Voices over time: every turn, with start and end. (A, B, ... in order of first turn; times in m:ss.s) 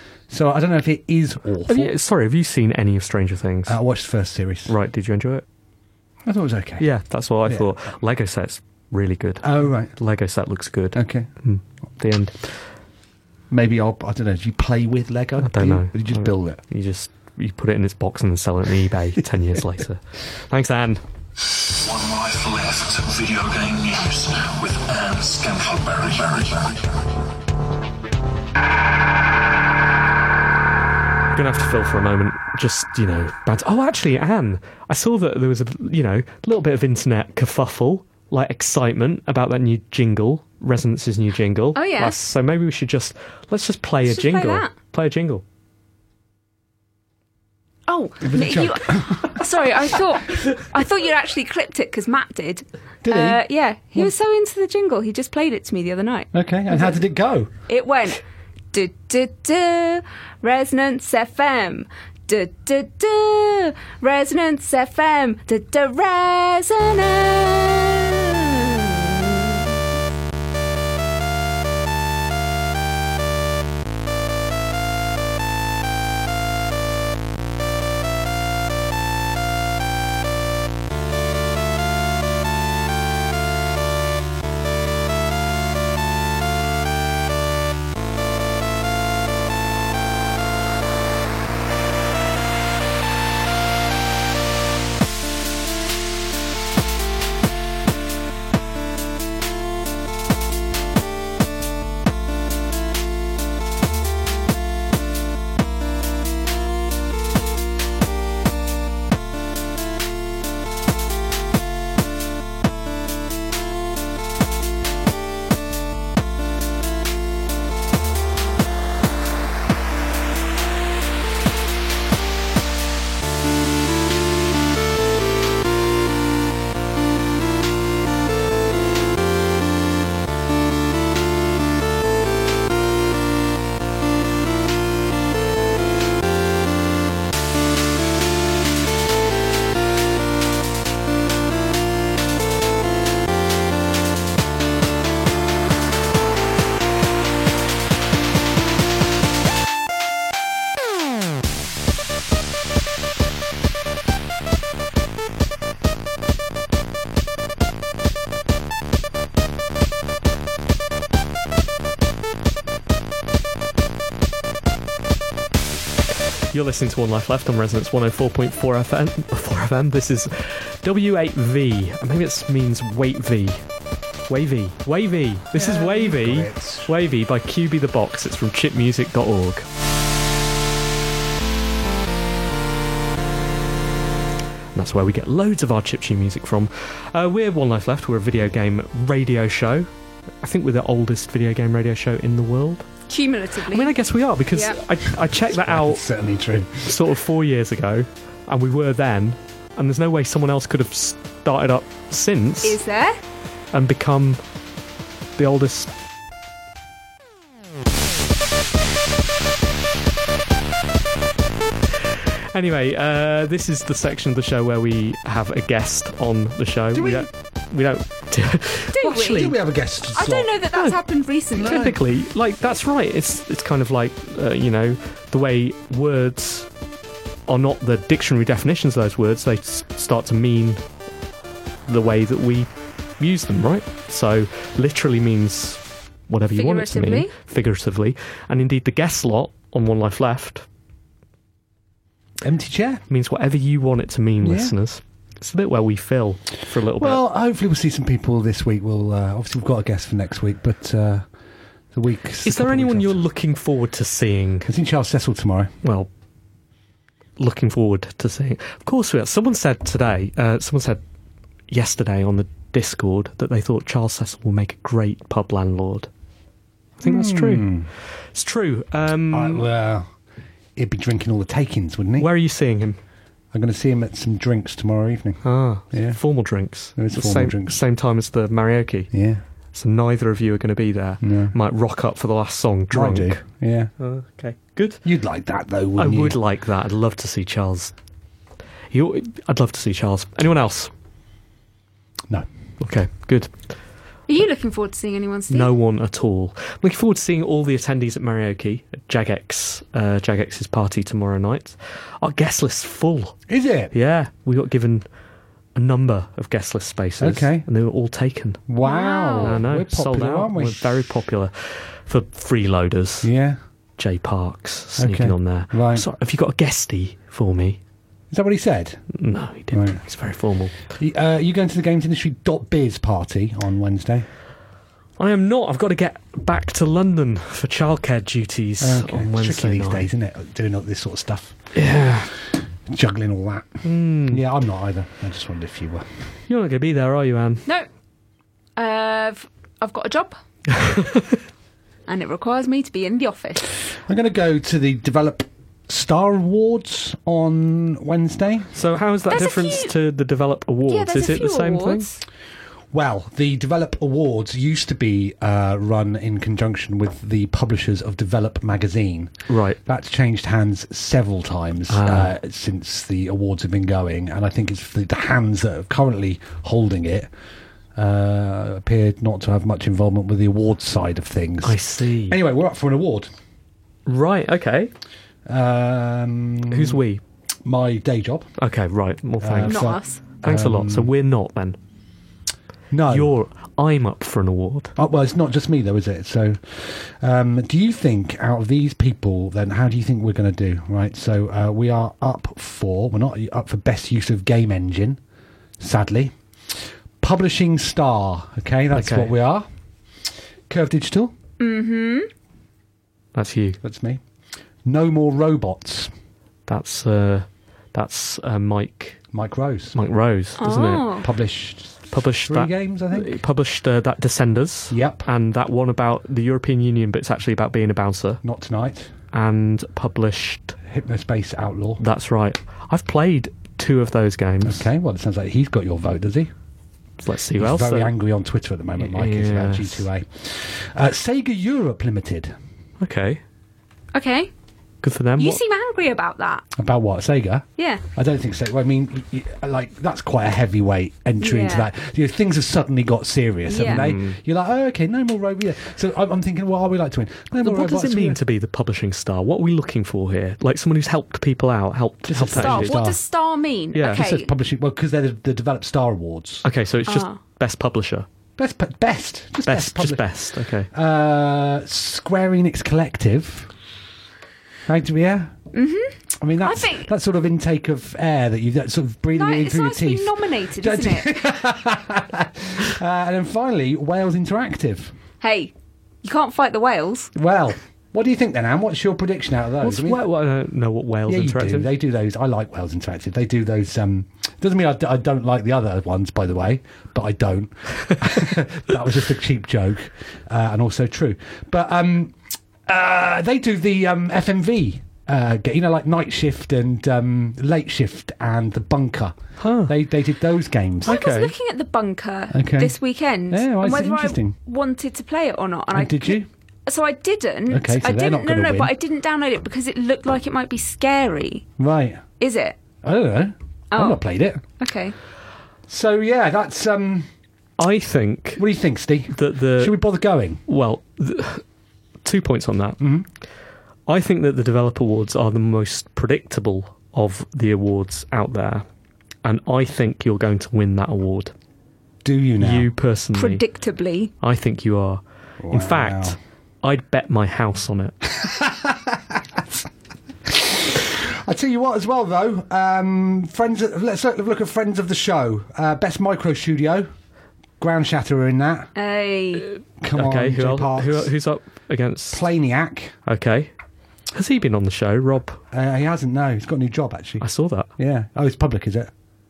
0:00.3-0:01.9 A
0:01.7-0:03.8 B
0:03.7-0:04.7 A
0:04.7-0:05.4 B
0:06.3-0:06.9 A
0:06.8-0:12.5 B
0:07.4-0:07.7 A
0:09.4-0:09.9 A
0:10.9-0:11.3 A
0:13.5-0:16.6 A
0:15.4-0:21.0 B
0:21.8-0:26.9 C
0:31.3-0:45.4 B
0:41.8-0:42.2 D
0:44.1-0:44.7 D
0:47.9-0:57.0 D
0:48.2-0:49.4 A
0:53.0-0:53.4 A
0:56.3-0:57.5 A
0:57.7-0:58.2 D
0:58.7-1:09.6 D
2:46.5-2:53.6 B
2:54.3-2:59.7 B
2:55.6-2:56.9 A
3:04.8-3:09.9 B
3:10.4-3:12.9 B
3:13.1-3:13.9 D
3:13.7-3:16.0 B
3:14.5-3:14.8 D
3:15.4-3:17.0 A
3:16.8-3:22.8 B
3:22.6-3:23.2 D
3:23.7-3:24.4 B
3:25.4-3:25.9 B
3:32.5-3:39.5 B
3:36.9-3:37.3 A
3:38.9-3:39.6 D
3:39.0-3:40.5 A
3:40.1-3:41.9 D
3:41.6-3:42.0 A
3:41.6-3:46.7 B
3:47.5-3:50.8 B
3:51.9-4:00.7 B
3:56.5-3:57.3 D
4:02.4-4:03.0 A
4:03.1-4:07.2 B
4:04.4-4:04.8 A
4:07.0-4:11.3 A
4:11.9-4:13.2 A
4:12.4-4:14.7 B
4:14.6-4:15.7 A
4:15.8-4:16.1 B
4:17.4-4:21.0 B
4:21.7-4:26.1 B
4:27.0-4:29.7 B
4:27.0-4:27.9 A
4:29.3-4:30.1 A
4:30.8-4:32.3 A
4:32.2-4:33.0 B
4:33.5-4:36.2 A
4:35.4-4:39.1 B
4:37.0-4:37.8 A
4:39.1-4:39.4 A
4:39.7-4:43.4 B
4:41.2-4:41.5 A
4:42.9-4:43.9 A
4:44.0-4:45.0 B
4:45.0-4:46.4 A
4:46.0-4:47.9 B
4:48.9-4:50.9 B
4:52.8-4:53.5 B
4:54.3-4:55.7 D
4:55.5-5:03.4 B
5:03.5-5:03.9 A
5:03.9-5:05.0 B
5:05.8-5:08.6 B
5:07.2-5:07.7 A
5:08.7-5:11.0 A
5:08.8-5:09.6 D
5:09.4-5:13.3 B
5:13.2-5:13.6 A
5:14.0-5:17.8 B
5:15.0-5:16.1 A
5:18.3-5:19.0 A
5:19.1-5:20.9 B
5:19.7-5:20.0 A
5:21.0-5:24.3 A
5:25.2-5:30.1 B
5:28.8-5:31.6 A
5:31.8-5:32.3 B
5:32.9-5:36.1 A
5:33.8-5:34.4 B
5:36.5-5:37.6 B
5:38.8-5:40.4 D
5:40.8-5:41.4 B
5:42.1-5:43.7 D
5:44.1-5:48.7 A
5:48.7-5:52.1 B
5:49.3-5:49.9 D
5:50.9-5:52.2 D
5:52.9-5:59.3 A
5:59.5-5:59.8 B
5:59.8-6:07.3 A
6:01.9-6:02.3 B
6:08.0-6:13.3 A
6:11.6-6:12.4 B
6:14.1-6:14.9 B
6:15.5-6:17.0 A
6:16.7-6:17.2 B
6:17.6-6:18.5 A
6:18.6-6:21.8 B
6:19.4-6:21.1 A
6:19.7-6:20.2 D
6:22.9-6:23.3 A
6:23.1-6:24.9 B
6:25.0-6:35.2 A
6:35.8-6:36.4 A
6:37.2-6:39.7 A
6:39.0-6:39.3 B
6:40.7-6:41.3 A
6:41.6-6:42.3 D
6:43.4-6:43.8 B
6:43.8-6:44.2 A
6:44.8-6:46.1 A
6:46.7-6:49.2 B
6:49.3-6:50.0 A
6:49.9-6:51.2 B
6:50.6-6:51.3 D
6:51.2-6:53.4 A
6:52.1-6:58.4 B
6:54.9-6:55.3 A
6:58.4-6:59.1 A
6:59.3-7:00.8 B
7:00.8-7:02.0 A
7:02.0-7:04.8 B
7:04.6-7:06.5 A
7:07.2-7:08.1 B
7:07.6-7:12.6 A
7:09.0-7:10.1 B
7:13.0-7:13.4 B
7:14.1-7:14.5 D
7:15.0-7:15.6 B
7:15.4-7:16.6 D
7:16.8-7:28.4 A
7:17.8-7:18.0 D
7:21.4-7:21.9 D
7:23.7-7:24.0 D
7:23.8-7:24.4 B
7:27.6-7:33.0 B
7:32.3-7:33.2 A
7:32.5-7:34.5 D
7:34.0-7:34.2 B
7:34.0-7:36.7 A
7:36.6-7:38.3 B
7:37.1-7:37.4 D
7:38.6-7:40.3 A
7:39.7-7:40.9 B
7:40.9-7:43.7 A
7:44.9-7:45.5 A
7:45.7-7:47.1 D
7:46.4-7:55.1 A
7:49.4-7:51.4 D
7:55.4-7:55.7 D
7:56.2-7:57.3 D
7:57.4-8:00.2 A
7:59.8-8:01.9 B
8:01.3-8:21.5 A
8:19.6-8:20.0 B
8:21.0-8:31.7 D
8:22.5-8:23.0 A
8:23.5-8:24.6 A
8:25.9-8:26.5 A
8:27.7-8:28.9 A
8:31.8-8:32.2 A
8:32.4-8:32.8 D
8:33.0-8:34.6 A
8:33.9-8:34.2 D
8:34.8-8:35.2 D
8:35.9-8:37.3 A
8:37.8-8:38.6 B
8:38.6-8:40.6 A
8:39.3-8:40.0 B
8:40.7-8:41.6 B
8:42.2-8:43.0 B
8:43.0-8:43.3 A
8:44.1-8:48.8 B
8:49.4-8:51.5 B
8:52.2-8:52.9 A
8:52.6-8:53.6 B
8:53.4-8:54.3 D
8:54.4-8:58.2 B
8:55.6-8:56.4 A
8:58.3-8:59.8 A
9:00.4-9:07.1 A
9:07.8-9:08.9 A
9:09.0-9:09.7 D
9:09.7-9:12.4 B
9:10.0-9:11.3 A
9:12.3-9:13.2 A
9:13.3-9:13.7 B
9:14.3-9:15.6 B
9:15.7-9:17.5 A
9:17.4-9:17.9 B
9:18.0-9:19.1 A